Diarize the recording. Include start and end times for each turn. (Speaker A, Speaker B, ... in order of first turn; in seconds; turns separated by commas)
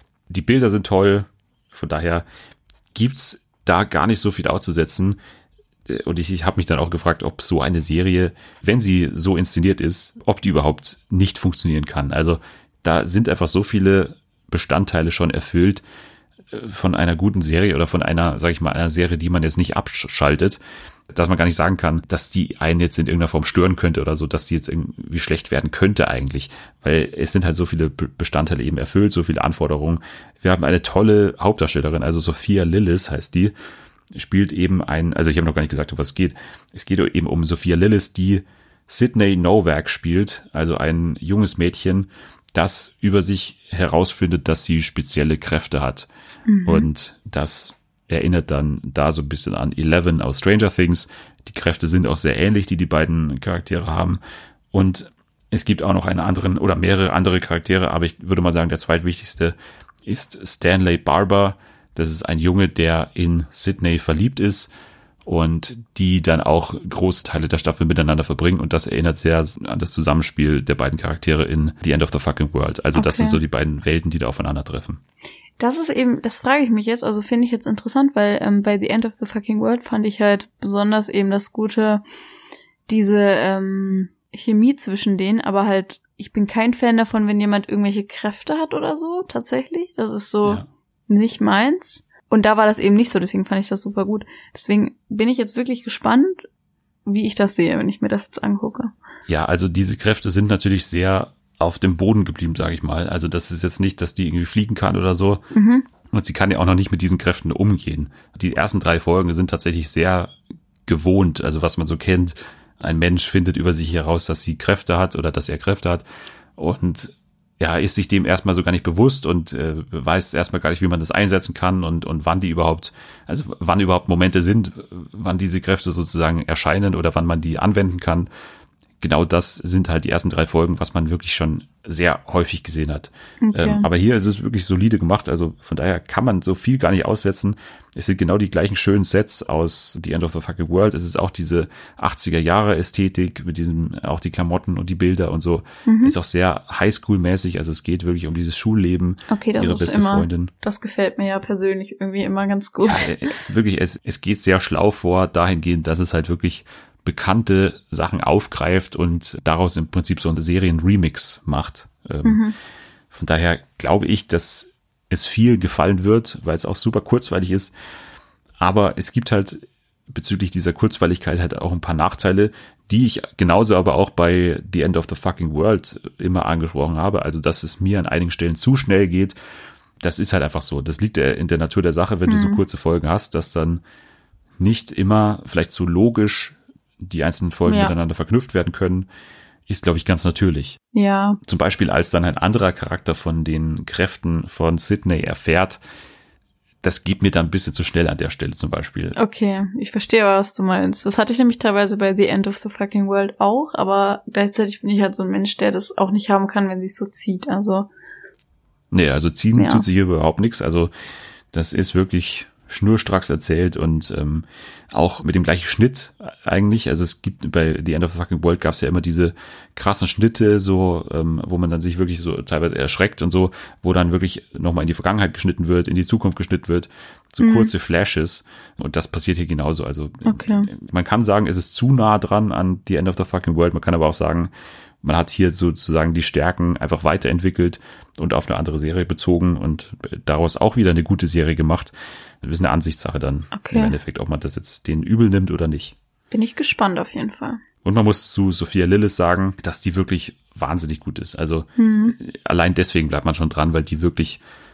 Speaker A: 0.3-2.2, Speaker A: 2.9-5.2, Speaker A: 5.9-15.8, Speaker A: 16.5-20.6, Speaker A: 21.1-33.5, Speaker A: 34.1-46.1, Speaker B: 46.5-46.9, Speaker A: 46.6-54.2, Speaker A: 54.7-64.7, Speaker A: 65.3-75.0, Speaker B: 73.0-73.4, Speaker B: 75.6-82.0, Speaker B: 82.9-96.5, Speaker B: 97.1-98.9, Speaker A: 99.3-105.5, Speaker B: 105.5-105.9, Speaker A: 106.1-110.3, Speaker A: 110.9-116.0, Speaker A: 116.6-128.3, Speaker A: 129.0-150.5, Speaker B: 133.4-133.9, Speaker B: 145.9-146.2, Speaker B: 149.3-153.1, Speaker A: 152.8-162.4, Speaker B: 162.2-162.6, Speaker A: 163.1-167.7, Speaker A: 168.6-179.4, Speaker A: 180.0-183.8, Speaker B: 182.3-182.6, Speaker A: 184.6-189.1, Speaker B: 187.7-187.9, Speaker A: 189.7-190.8, Speaker B: 190.9-191.4, Speaker A: 191.4-195.8, Speaker A: 196.8-199.2, Speaker B: 199.2-207.9, Speaker A: 208.9-210.9, Speaker B: 209.6-209.8, Speaker A: 211.5-234.5, Speaker B: 227.4-227.7, Speaker B: 230.2-230.7, Speaker A: 235.0-246.0, Speaker B: 243.5-243.9, Speaker B: 246.3-247.6, Speaker A: 247.8-254.4, Speaker B: 251.8-252.2